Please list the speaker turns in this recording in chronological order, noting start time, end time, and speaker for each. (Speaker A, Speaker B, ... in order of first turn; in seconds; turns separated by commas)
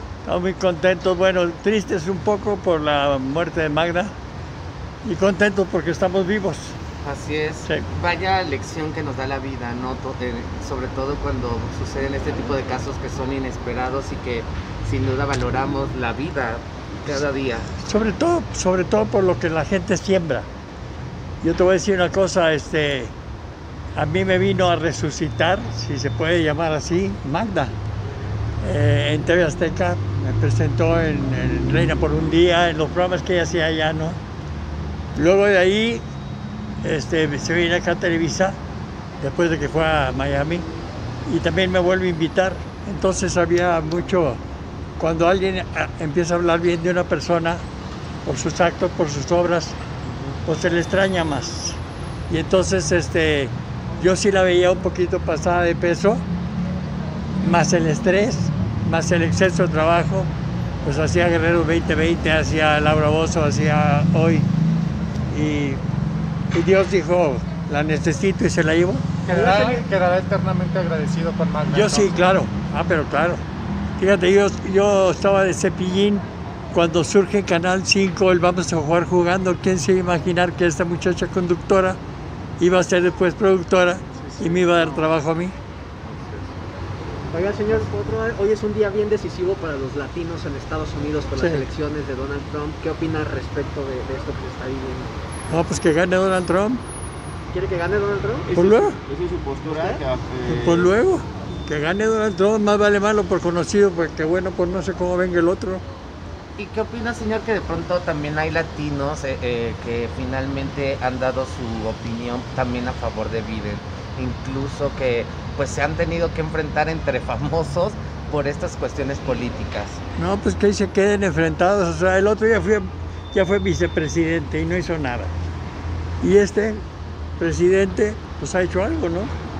Speaker A: 0.2-4.2, Speaker A: 5.0-6.7, Speaker B: 7.0-17.7, Speaker A: 17.8-20.5, Speaker A: 21.4-23.1, Speaker A: 23.9-27.7, Speaker A: 28.6-34.2, Speaker A: 35.1-36.0, Speaker A: 36.8-38.6, Speaker A: 39.2-40.6, Speaker A: 41.3-44.4, Speaker A: 45.0-47.6, Speaker A: 48.2-49.8, Speaker A: 50.4-56.2, Speaker A: 57.4-60.3, Speaker A: 60.8-64.5, Speaker A: 65.3-65.8, Speaker A: 66.5-69.0, Speaker C: 69.2-72.2, Speaker D: 69.3-69.8, Speaker A: 71.7-73.4, Speaker A: 74.0-82.0, Speaker A: 82.6-85.5, Speaker E: 86.1-86.4, Speaker D: 87.3-95.2, Speaker A: 91.4-91.7, Speaker A: 95.5-96.8, Speaker D: 97.5-98.5, Speaker E: 98.5-100.8, Speaker A: 98.5-99.0, Speaker D: 99.7-100.0, Speaker A: 100.5-105.8, Speaker B: 106.6-120.0, Speaker A: 120.2-125.3, Speaker A: 126.2-126.8, Speaker A: 127.4-129.3